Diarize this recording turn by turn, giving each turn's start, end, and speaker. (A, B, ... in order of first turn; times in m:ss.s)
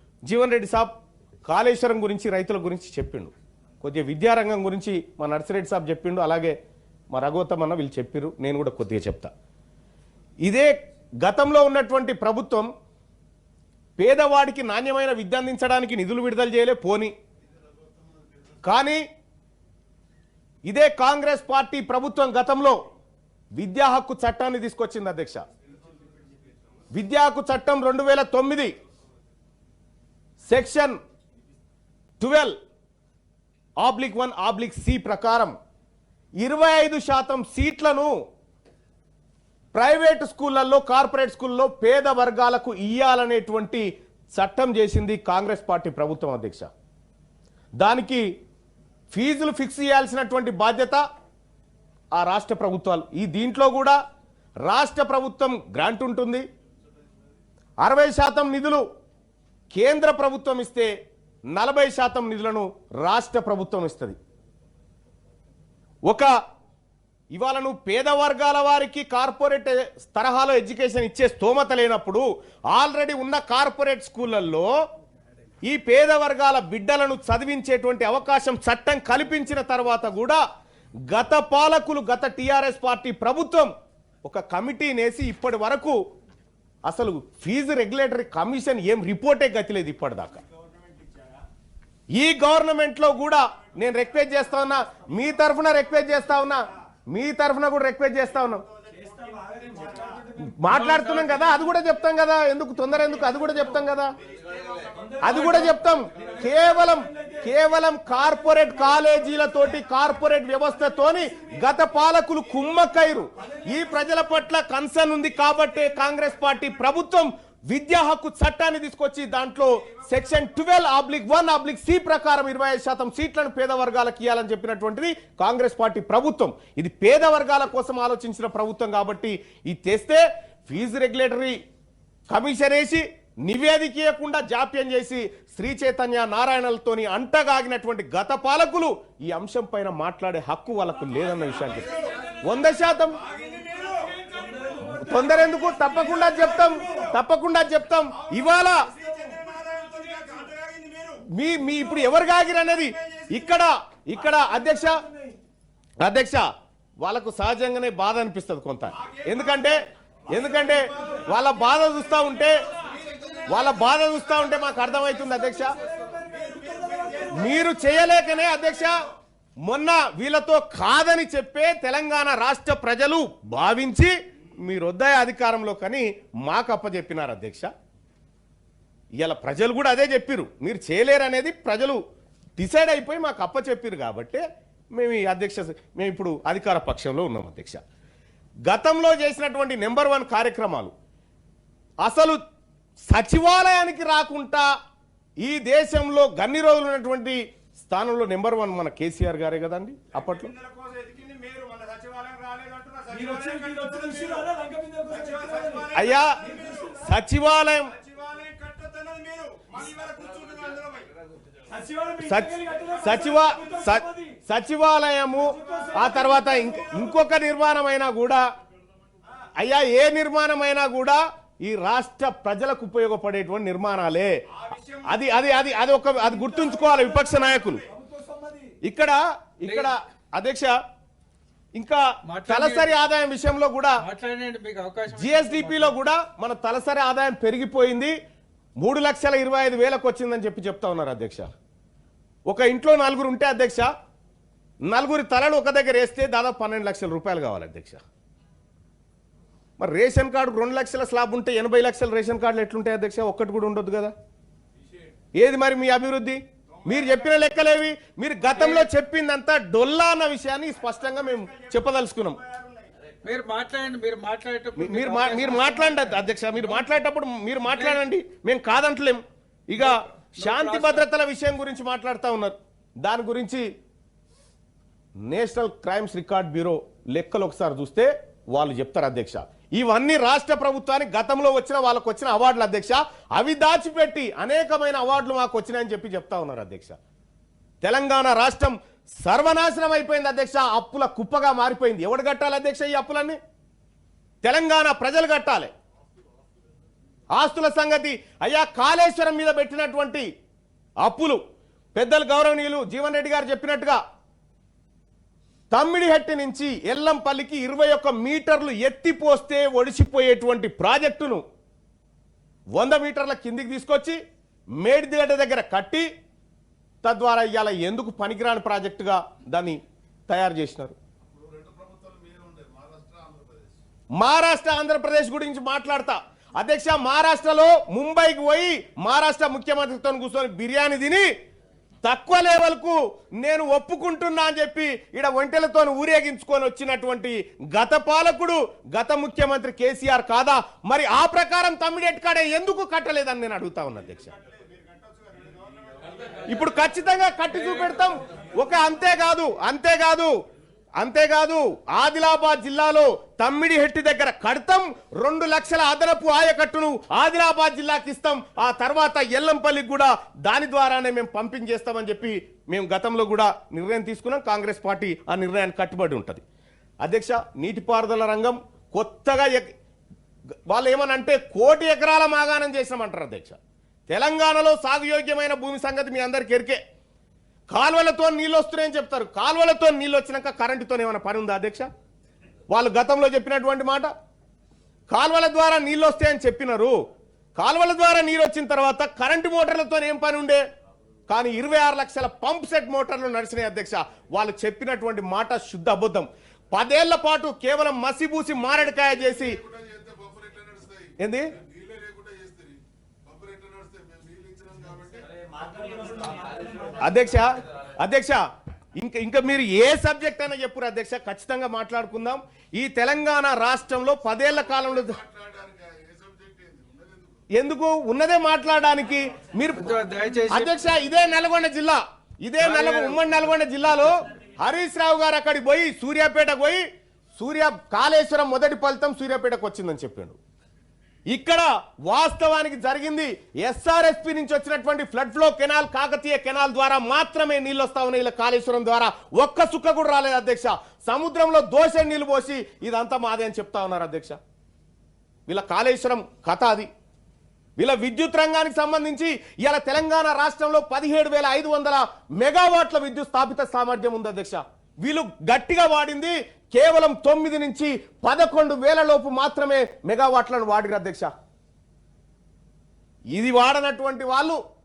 0:00.3-0:00.9 A
0:01.5-0:06.6 A
0:07.1-0:09.3 A
0:10.4-0:12.7 A
0:14.0-0:17.1 A
0:18.6-0:19.0 A
0:20.7-0:22.8 A
0:23.6-0:25.4 A
0:26.9-0:28.8 A
0:30.5-0:31.0 A
0:32.2-0:32.6 A
0:33.8-0:35.6 A
0:36.4-0:38.1 A
0:39.8-0:46.7 A
0:47.8-0:48.3 A
0:49.1-0:51.0 A
0:52.1-0:54.0 A
0:54.6-0:56.4 A
0:57.8-0:58.8 A
0:59.7-1:00.9 A
1:01.5-1:04.2 A
1:06.1-1:06.3 A
1:07.3-1:14.7 A
1:15.6-1:20.4 A
1:21.1-1:23.7 A
1:24.2-1:26.0 A
1:26.9-1:30.4 A
1:32.1-1:38.6 A
1:39.0-1:40.2 B
1:40.4-1:44.1 A
1:40.7-1:41.5 C
1:45.2-2:11.6 A
2:12.3-2:23.2 A
2:23.4-2:24.6 B
2:24.9-2:28.9 A
2:29.0-2:31.2 B
2:31.3-2:35.0 A
2:36.0-2:36.5 A
2:37.0-2:42.6 A
2:43.5-2:45.8 A
2:45.9-2:47.4 B
2:47.3-2:49.1 A
2:49.6-2:57.7 A
2:59.2-3:02.0 A
3:02.6-3:07.8 A
3:08.7-3:10.9 A
3:12.0-3:12.4 A
3:13.1-3:14.7 A
3:15.4-3:20.6 A
3:20.6-3:25.9 B
3:25.9-3:27.9 A
3:26.5-3:26.9 B
3:28.1-3:31.1 B
3:31.7-3:32.1 B
3:32.2-3:38.4 A
3:32.6-3:32.9 B
3:39.6-3:44.4 A
3:44.7-3:45.0 B
3:45.0-3:47.8 A
3:48.8-3:50.8 A
3:49.6-3:49.9 C
3:51.8-3:54.1 A
3:52.2-3:52.9 C
3:54.0-3:56.0 C
3:55.1-3:58.2 A
3:58.8-4:01.5 A
4:02.5-4:03.9 A
4:04.8-4:08.0 A
4:09.8-4:14.1 A
4:15.4-4:22.4 A
4:18.6-4:18.9 C
4:23.2-4:26.8 C
4:24.8-4:33.7 A
4:27.7-4:28.0 C
4:29.8-4:31.1 C
4:35.2-4:47.0 A
4:47.8-4:53.4 A
4:54.4-4:55.7 A
4:57.3-5:00.3 A
5:01.0-5:01.4 A
5:02.0-5:04.0 A
5:05.7-5:11.4 A
5:12.7-5:14.2 A
5:14.8-5:16.1 A
5:17.0-5:21.0 A
5:21.4-5:23.6 B
5:24.2-5:31.3 A
5:32.0-5:44.3 A
5:44.6-5:45.9 B
5:46.5-5:50.3 A
5:51.0-6:06.4 A
6:07.0-6:09.7 A
6:10.7-6:13.6 A
6:14.1-6:16.8 A
6:17.7-6:21.9 A
6:22.7-6:24.1 A
6:25.1-6:27.0 A
6:27.6-6:30.6 A
6:31.3-6:39.6 A
6:39.8-6:41.0 B
6:41.2-6:41.6 A
6:41.7-6:46.0 B
6:47.0-6:48.4 A
6:49.0-6:55.2 A
6:55.3-6:57.3 B
6:57.5-7:00.0 A
6:59.7-7:00.8 C
7:00.5-7:06.8 A
7:02.6-7:03.2 C
7:07.4-7:10.4 A
7:11.3-7:24.4 A
7:25.5-7:26.9 A
7:27.8-7:41.3 A
7:43.3-7:44.6 A